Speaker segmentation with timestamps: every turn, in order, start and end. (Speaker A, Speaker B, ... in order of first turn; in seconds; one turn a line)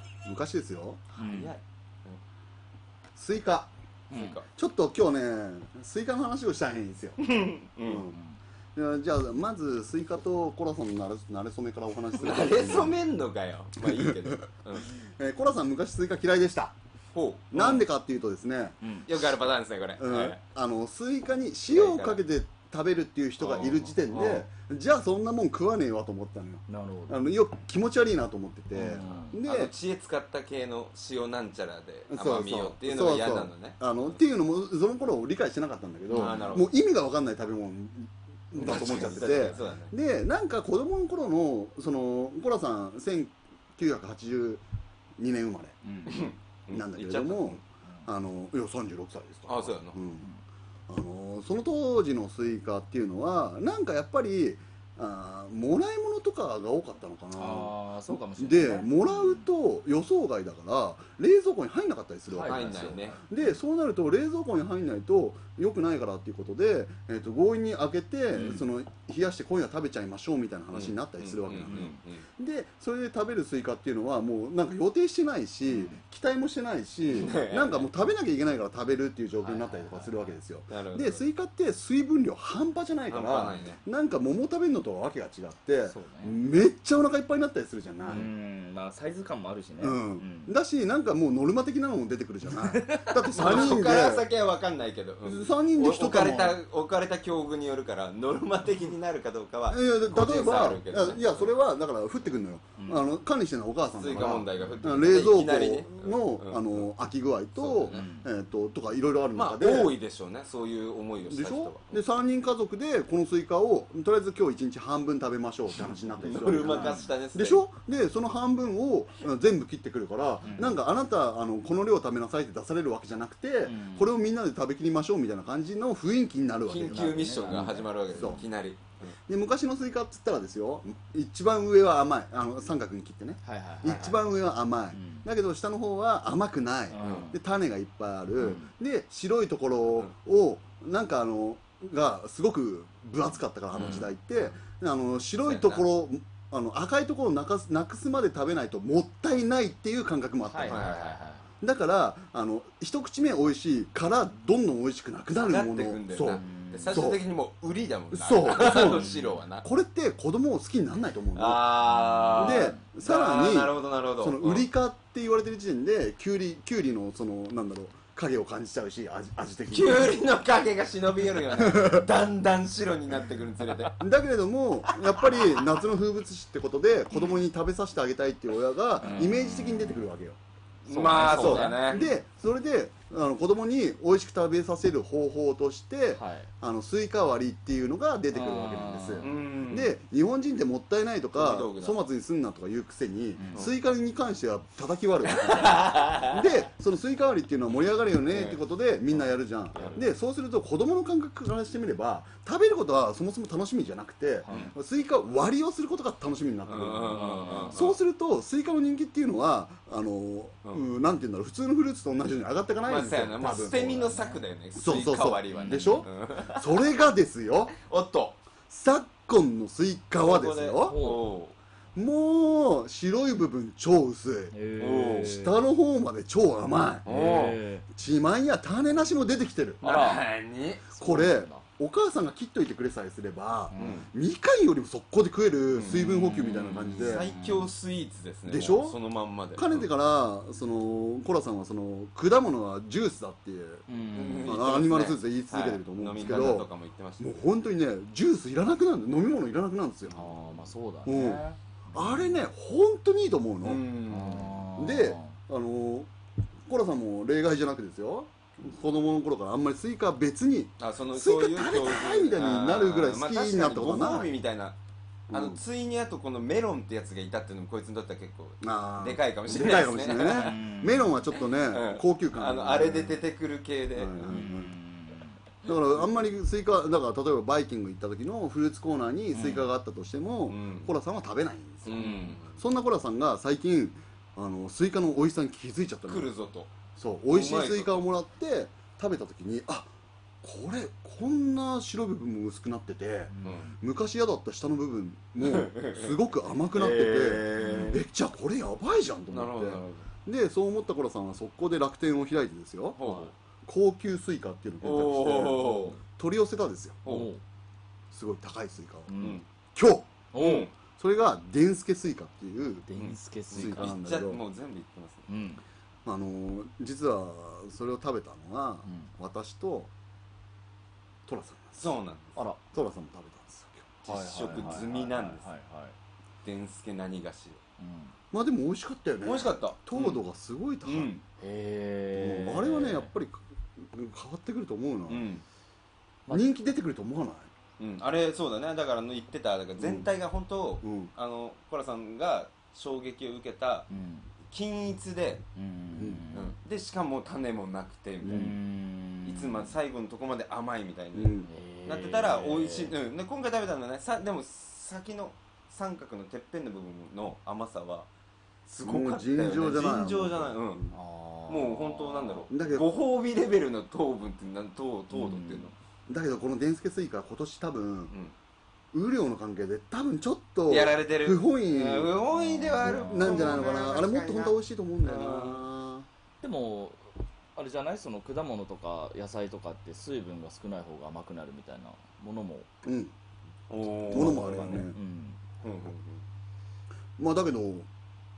Speaker A: 0.2-1.0
Speaker B: 1.1-2.2
Speaker C: 1.2-1.5
Speaker A: 3.1-3.7
Speaker B: 4.1-4.5
Speaker C: 4.1-4.4
Speaker A: 4.5-7.2
Speaker B: 7.2-8.1
Speaker A: 7.8-8.2
Speaker C: 8.1-8.4
Speaker A: 8.7-13.0
Speaker B: 12.1-14.9
Speaker A: 13.8-14.4
Speaker A: 15.0-16.7
Speaker B: 17.1-17.9
Speaker A: 17.5-19.4
Speaker C: 18.8-19.1
Speaker B: 19.1-20.4
Speaker A: 20.0-29.7
Speaker B: 21.7-22.2
Speaker B: 23.4-24.4
Speaker C: 26.7-27.2
Speaker C: 28.7-29.4
Speaker B: 29.4-34.2
Speaker A: 32.1-44.6
Speaker C: 36.1-36.6
Speaker B: 36.1-36.7
Speaker B: 38.5-39.9
Speaker A: 45.2-45.8
Speaker C: 45.8-46.3
Speaker B: 46.1-47.6
Speaker A: 46.7-50.3
Speaker B: 49.5-50.0
Speaker A: 50.9-88.3
Speaker C: 57.3-59.5
Speaker C: 62.3-62.9
Speaker B: 62.4-63.2
Speaker C: 68.3-68.7
Speaker B: 70.7-72.3
Speaker C: 71.6-72.0
Speaker C: 75.7-76.0
Speaker B: 77.1-77.9
Speaker C: 79.4-80.4
Speaker B: 80.7-81.2
Speaker B: 83.1-83.8
Speaker C: 85.9-86.4
Speaker C: 88.1-90.6
Speaker A: 89.8-94.3
Speaker C: 92.7-93.7
Speaker B: 93.3-101.5
Speaker A: 95.2-96.6
Speaker A: 99.7-110.0
Speaker C: 102.8-103.1
Speaker B: 103.9-106.9
Speaker B: 107.5-108.0
Speaker C: 107.9-108.3
Speaker B: 109.3-112.0
Speaker A: 111.3-128.4
Speaker B: 116.2-117.7
Speaker C: 116.6-117.1
Speaker C: 120.4-120.8
Speaker C: 123.6-124.1
Speaker B: 126.7-129.1
Speaker C: 126.9-128.4
Speaker A: 129.3-150.9
Speaker C: 133.4-134.2
Speaker B: 133.8-134.1
Speaker C: 134.9-135.3
Speaker C: 136.9-137.4
Speaker B: 137.0-137.2
Speaker C: 138.4-138.7
Speaker C: 143.7-144.1
Speaker B: 143.8-144.1
Speaker B: 145.4-145.8
Speaker C: 150.4-151.5
Speaker B: 150.7-151.2
Speaker A: 151.6-157.2
Speaker B: 155.3-159.7
Speaker C: 156.3-157.0
Speaker A: 158.1-161.8
Speaker C: 158.7-159.4
Speaker B: 161.3-164.7
Speaker C: 161.8-162.8
Speaker A: 162.4-170.2
Speaker B: 169.7-174.0
Speaker A: 171.6-172.1
Speaker A: 174.0-180.4
Speaker B: 174.9-175.6
Speaker C: 179.0-180.0
Speaker B: 180.9-182.1
Speaker C: 180.9-182.1
Speaker A: 181.1-214.2
Speaker C: 186.1-186.5
Speaker C: 188.3-189.3
Speaker B: 189.2-189.9
Speaker B: 191.3-192.0
Speaker C: 193.4-193.7
Speaker B: 195.6-196.3
Speaker C: 195.8-196.3
Speaker B: 198.3-198.6
Speaker C: 199.2-200.0
Speaker B: 199.7-200.0
Speaker C: 204.4-204.7
Speaker B: 206.7-208.0
Speaker C: 207.1-207.8
Speaker B: 212.8-216.9
Speaker C: 214.1-214.4
Speaker A: 214.7-217.7
Speaker C: 215.5-216.1
Speaker B: 217.7-218.4
Speaker A: 218.7-221.0
Speaker B: 220.2-221.6
Speaker C: 220.8-221.3
Speaker A: 221.9-224.5
Speaker C: 224.5-225.5
Speaker B: 224.8-225.3
Speaker A: 225.2-227.1
Speaker B: 227.1-227.6
Speaker C: 227.1-227.8
Speaker A: 227.9-229.8
Speaker B: 229.8-231.0
Speaker C: 229.8-230.2
Speaker C: 230.9-231.6
Speaker A: 231.0-237.3
Speaker C: 233.7-234.0
Speaker B: 233.8-234.1
Speaker B: 235.7-236.1
Speaker C: 235.8-237.7
Speaker B: 237.0-239.9
Speaker A: 238.5-239.0
Speaker A: 239.6-243.8
Speaker C: 243.9-244.6
Speaker B: 244.1-247.3
Speaker A: 244.4-250.4
Speaker C: 250.1-252.4
Speaker A: 251.0-253.8
Speaker B: 253.6-254.6
Speaker C: 254.1-255.3
Speaker A: 254.8-256.1
Speaker A: 256.6-264.3
Speaker B: 260.8-264.8
Speaker A: 265.3-265.6
Speaker B: 265.3-270.6
Speaker A: 268.6-273.2
Speaker C: 270.2-271.2
Speaker B: 271.4-274.4
Speaker A: 273.9-274.7
Speaker C: 274.2-275.4
Speaker A: 275.6-286.3
Speaker B: 275.7-276.1
Speaker C: 279.3-279.7
Speaker B: 280.5-280.9
Speaker B: 281.8-282.6
Speaker C: 281.9-282.4
Speaker B: 286.1-286.7
Speaker A: 286.9-289.9
Speaker B: 287.3-288.1
Speaker A: 290.4-303.0
Speaker C: 293.3-293.8
Speaker B: 295.4-296.1
Speaker B: 296.7-298.0
Speaker C: 297.6-298.0
Speaker B: 299.3-300.0
Speaker B: 303.0-303.3
Speaker C: 303.0-303.3
Speaker A: 303.6-307.0
Speaker B: 304.8-306.0
Speaker B: 307.0-307.3
Speaker C: 307.1-307.4
Speaker A: 308.1-310.1
Speaker C: 309.1-309.4
Speaker B: 309.2-309.4
Speaker C: 310.3-310.7
Speaker B: 310.4-310.7
Speaker A: 310.9-312.9
Speaker C: 312.9-313.9
Speaker B: 312.9-315.3
Speaker A: 313.5-314.4
Speaker C: 315.3-315.6
Speaker A: 316.0-319.9
Speaker C: 318.8-319.1
Speaker A: 321.2-324.0
Speaker B: 321.8-322.4
Speaker B: 324.0-325.5
Speaker C: 324.0-325.9
Speaker B: 326.4-327.6
Speaker C: 327.8-328.1
Speaker A: 328.3-331.1
Speaker B: 329.2-330.2
Speaker B: 330.8-331.2
Speaker C: 331.4-333.1
Speaker A: 332.1-335.2
Speaker B: 335.1-335.4
Speaker A: 336.3-337.5
Speaker B: 337.8-343.9
Speaker A: 339.8-340.1
Speaker A: 340.8-341.1
Speaker C: 343.9-344.3
Speaker B: 344.5-345.4
Speaker C: 345.6-346.5
Speaker A: 345.9-346.2
Speaker B: 346.3-348.6
Speaker A: 348.2-348.5
Speaker C: 348.2-349.7
Speaker B: 349.2-358.1
Speaker A: 351.1-351.5
Speaker C: 351.4-352.9
Speaker B: 358.7-360.9
Speaker A: 358.8-360.9
Speaker C: 360.9-362.5
Speaker B: 361.5-365.7
Speaker A: 362.5-362.9
Speaker C: 365.1-365.7
Speaker A: 366.1-368.1
Speaker A: 368.9-372.1
Speaker B: 370.7-375.6
Speaker C: 372.3-373.7
Speaker A: 372.8-376.1
Speaker C: 376.4-382.7
Speaker A: 382.8-383.1
Speaker B: 383.7-384.9
Speaker A: 384.1-385.0
Speaker C: 384.1-385.4
Speaker B: 385.6-386.2
Speaker A: 387.2-387.9